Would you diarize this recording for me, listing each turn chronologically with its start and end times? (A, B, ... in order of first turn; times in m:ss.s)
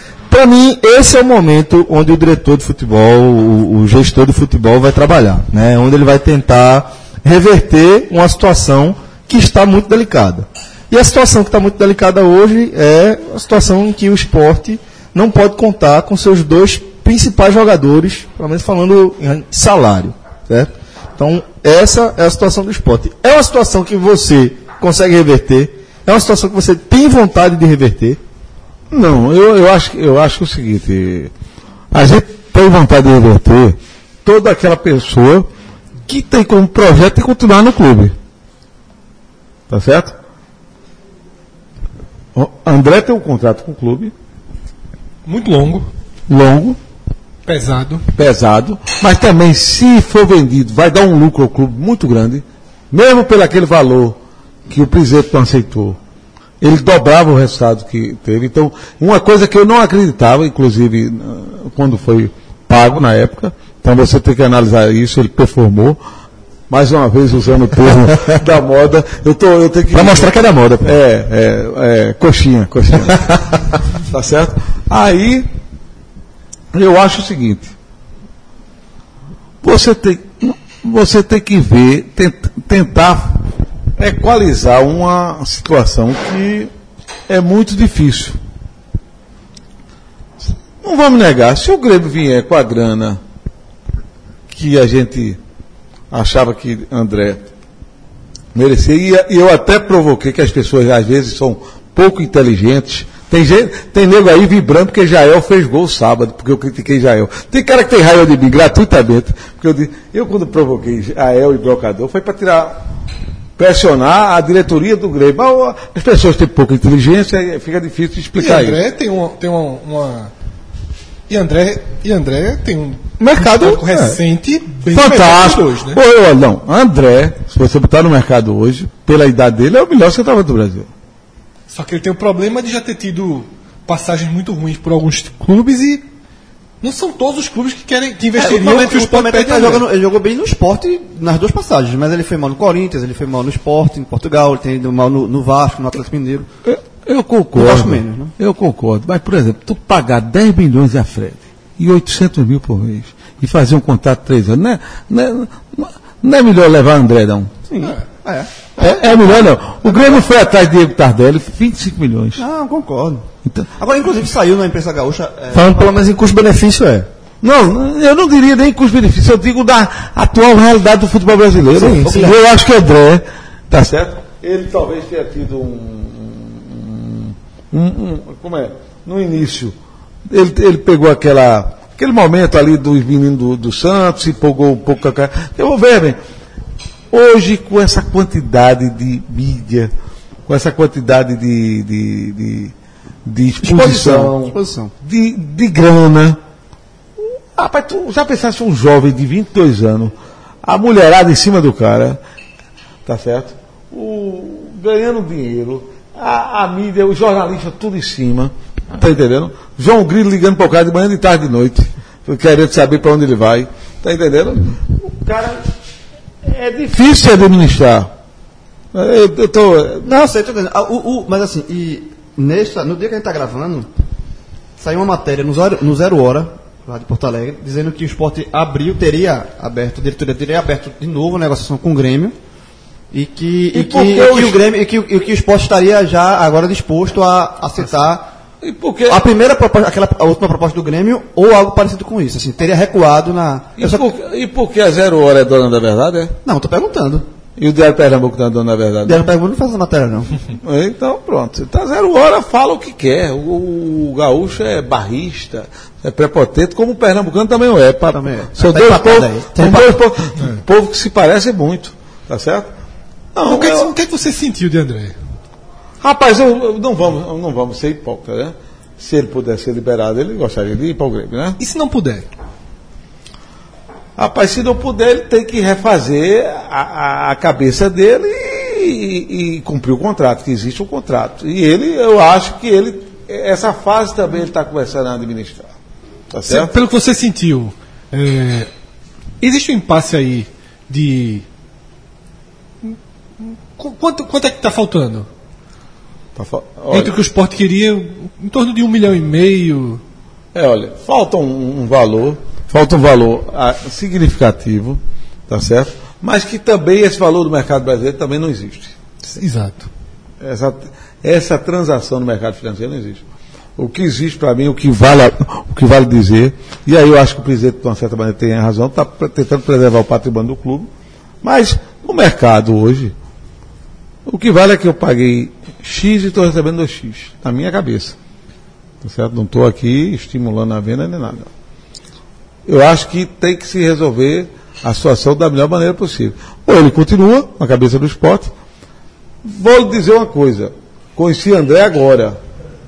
0:00.3-0:28.2 A
0:28.9-0:31.3 B
0:31.9-0:35.5 B
0:36.1-0:38.1 B
0:39.7-0:40.1 B
0:42.3-0:44.1 B
0:45.2-0:45.9 C
0:46.3-0:46.8 B
0:47.4-0:48.0 C
0:48.1-0:54.2 B
0:54.7-0:56.0 B
0:56.6-1:06.0 B
1:06.7-1:15.5 B
1:09.9-1:10.9 A
1:16.7-1:17.7 B
1:19.6-1:23.4 B
1:24.0-1:26.7 B
1:27.3-1:28.4 B
1:30.4-1:33.2 B
1:34.5-1:35.4 B
1:36.1-1:37.4 B
1:38.5-1:52.8 B
1:53.6-1:58.8 B
1:58.4-2:00.3 C
2:01.3-2:06.0 C
2:04.9-2:10.9 B
2:11.7-2:16.1 C
2:16.8-2:19.8 C
2:18.4-2:26.5 D
2:26.6-2:37.5 B
2:27.5-2:28.3 D
2:37.7-2:40.2 D
2:38.8-2:42.4 B
2:42.4-2:46.0 D
2:45.5-2:47.1 A
2:47.4-2:59.7 B
2:51.8-2:52.4 D
3:00.3-3:06.2 B
3:07.1-3:09.9 B
3:10.5-3:12.7 B
3:13.2-3:16.4 B
3:13.6-3:14.9 D
3:17.5-3:22.2 B
3:23.0-3:35.7 B
3:36.4-3:38.1 B
3:38.9-3:40.1 B
3:40.0-3:43.9 D
3:44.8-3:52.3 D
3:53.1-3:58.2 D
3:53.7-3:54.6 B
3:58.6-3:59.2 B
3:59.1-4:04.1 D
4:03.8-4:06.3 B
4:06.4-4:07.2 D
4:07.6-4:09.2 B
4:09.0-4:10.4 D
4:10.6-4:22.7 B
4:18.1-4:20.0 D
4:23.3-4:23.9 B
4:23.4-4:25.2 C
4:26.0-4:31.6 B
4:31.6-4:32.3 C
4:34.2-4:45.7 B
4:46.3-4:46.7 B
4:46.5-4:48.7 C
4:49.4-4:51.4 C
4:52.8-4:55.3 C
4:56.4-4:57.2 B
4:56.9-5:00.0 C
5:00.5-5:08.9 B
5:09.3-5:09.9 C
5:10.4-5:13.2 B
5:13.8-5:20.9 B
5:21.4-5:23.1 B
5:24.2-5:28.2 B
5:29.0-5:31.5 B
5:32.6-5:38.5 B
5:39.4-5:42.4 B